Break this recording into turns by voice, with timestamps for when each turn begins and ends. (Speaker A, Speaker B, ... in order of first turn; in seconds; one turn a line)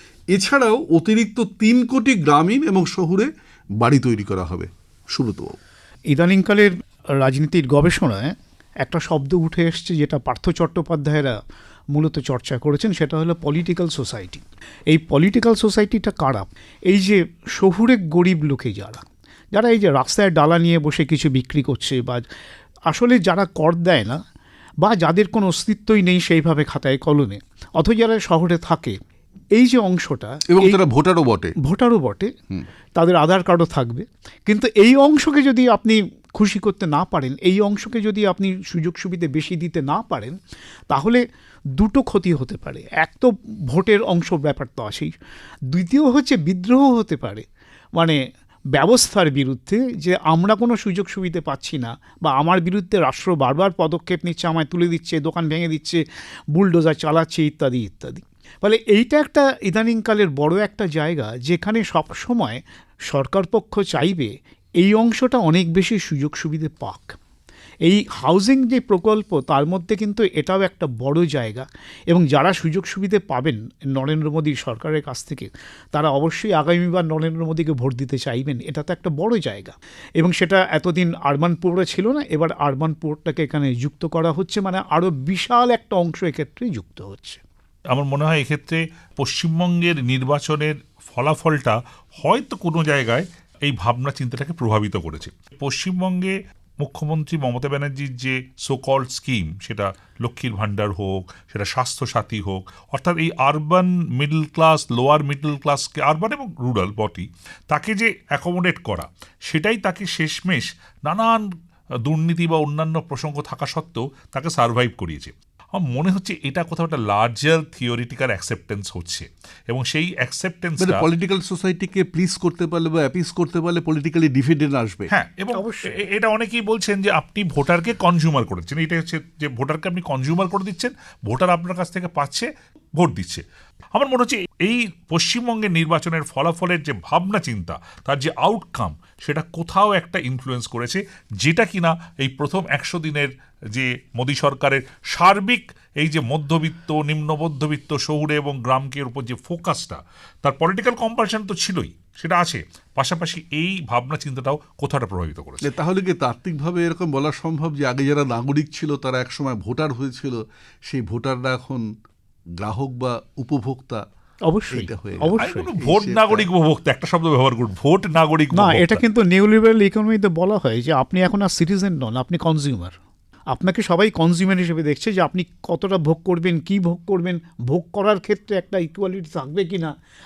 Speaker A: 0.3-5.6
Speaker B: 6.1-11.4
Speaker B: 11.9-22.3
Speaker B: 22.9-24.2
Speaker B: 24.8-29.0
Speaker B: 29.5-30.8
Speaker A: 30.5-31.6
Speaker B: 31.6-32.3
Speaker B: 33.0-40.4
Speaker B: 40.9-41.2
Speaker B: 41.8-45.1
Speaker B: 45.7-47.5
Speaker B: 48.7-56.0
Speaker B: 56.5-67.2
Speaker B: 67.8-87.4
Speaker C: 87.9-111.5
Speaker C: 112.0-121.1
Speaker A: 120.8-125.1
Speaker C: 125.1-155.7
Speaker B: 125.5-125.9
Speaker A: 155.6-161.9
Speaker A: 162.6-164.0
Speaker B: 164.5-165.7
Speaker A: 164.7-166.5
Speaker C: 165.4-169.0
Speaker B: 168.5-173.0
Speaker B: 173.5-179.9